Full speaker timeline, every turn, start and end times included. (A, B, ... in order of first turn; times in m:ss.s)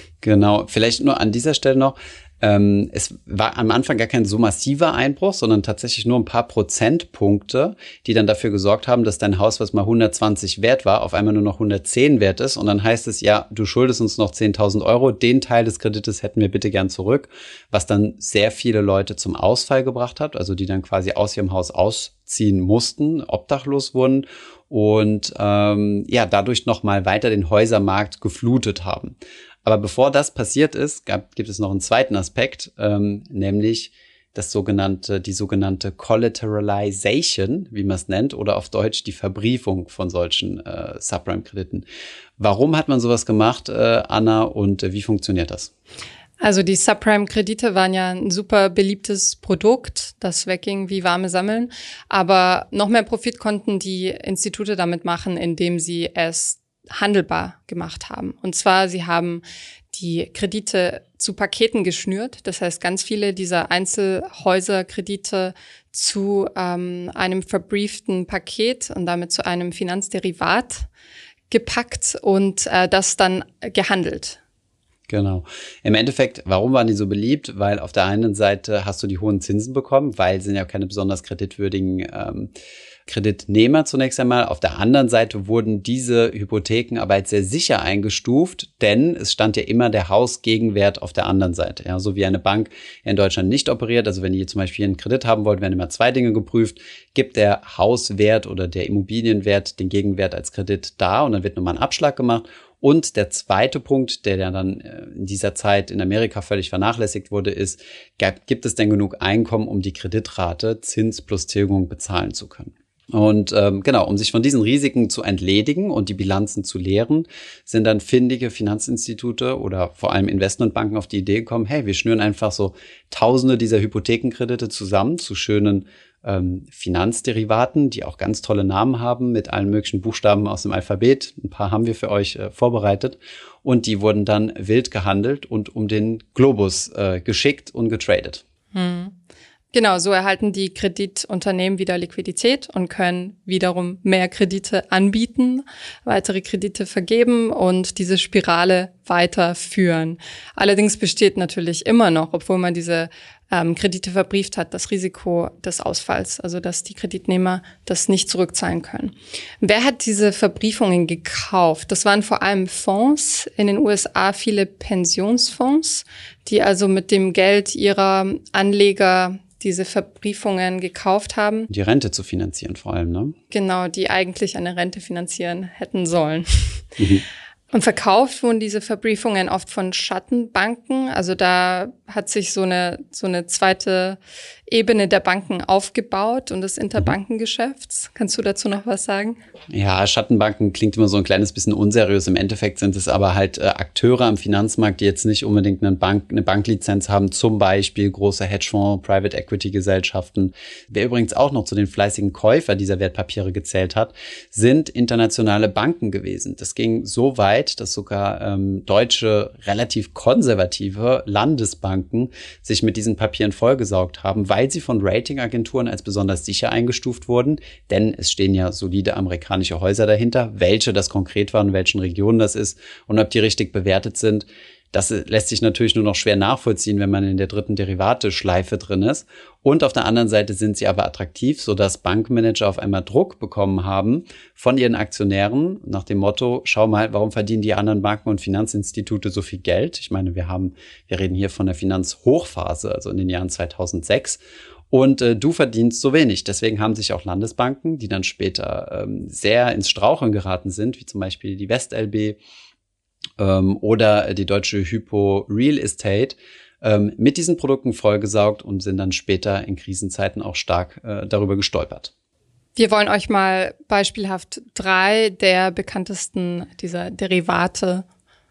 0:00.2-0:29.1 A
0:29.6-0:41.8 A
0:42.4-0:45.7 A
0:46.4-1:10.9 B
1:11.5-1:14.4 B
1:15.1-1:22.5 A
1:23.1-2:18.4 A
2:18.7-2:19.2 B
2:19.7-2:51.7 B
2:51.7-2:53.4 A
2:53.5-2:56.9 B
2:57.0-2:57.2 A
2:57.7-3:09.4 B
3:09.7-4:04.4 A
4:04.9-4:12.4 A
4:13.4-4:22.1 A
4:22.8-4:28.1 B